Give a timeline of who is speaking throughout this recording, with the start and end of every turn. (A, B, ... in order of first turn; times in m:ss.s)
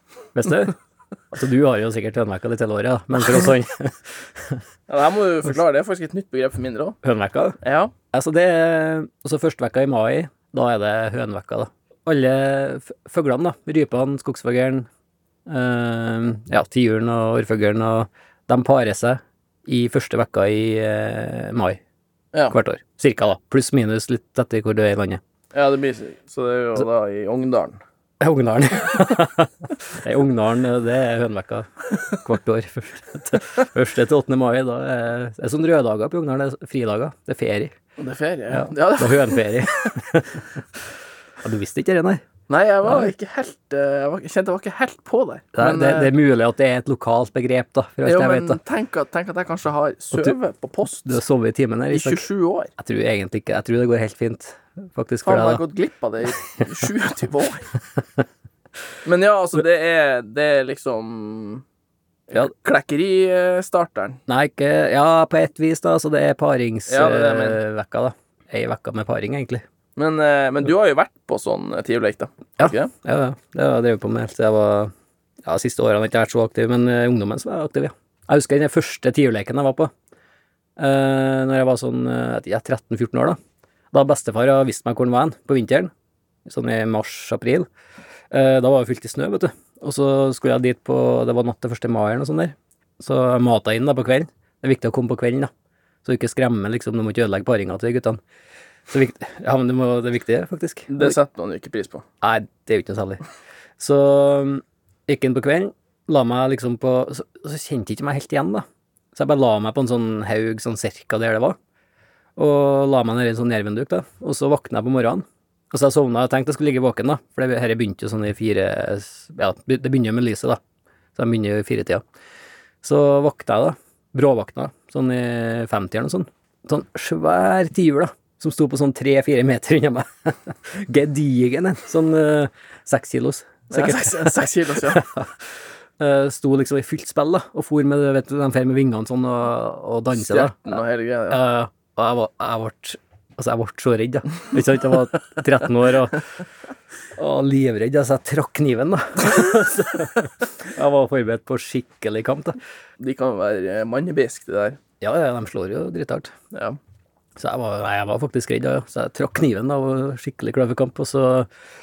0:00.4-0:00.8 A
0:01.3-0:04.6 A
0:04.9-0:07.0 B
0:07.0-0:07.6 A
0:07.6-0:07.9 B
0:08.1-0:14.9 A
0:15.5-0:21.8 A
0:22.5-0:25.2 A
0:25.5-0:27.8 B
0:28.2-0:37.7 A
0:38.0-0:39.7 B
0:38.5-0:40.4 A
0:41.4-0:42.2 A
0:42.5-0:46.1 B
0:45.6-0:48.6 A
0:48.0-0:51.2 B
0:51.1-0:55.6 A
0:51.9-0:52.7 B
0:55.2-0:57.7 B
0:59.0-1:01.6 B
1:02.3-1:04.2 B
1:04.3-1:09.6 A
1:06.9-1:07.6 B
1:10.0-1:12.9 B
1:12.6-1:14.9 A
1:15.5-1:19.9 A
1:20.8-1:23.4 A
1:23.9-1:25.9 A
1:26.5-1:27.7 A
1:28.3-1:35.5 A
1:36.0-1:38.2 A
1:38.9-1:41.2 A
1:40.9-1:42.0 B
1:42.2-1:43.2 A
1:43.8-1:51.6 A
1:52.4-2:00.6 A
2:01.2-2:02.0 A
2:02.8-2:15.4 A
2:13.7-2:15.0 B
2:16.0-2:20.8 A
2:20.1-2:21.4 B
2:21.3-2:26.3 A
2:27.2-2:32.6 A
2:33.0-2:34.8 B
2:35.0-2:36.3 A
2:36.5-2:36.8 B
2:37.4-2:41.5 A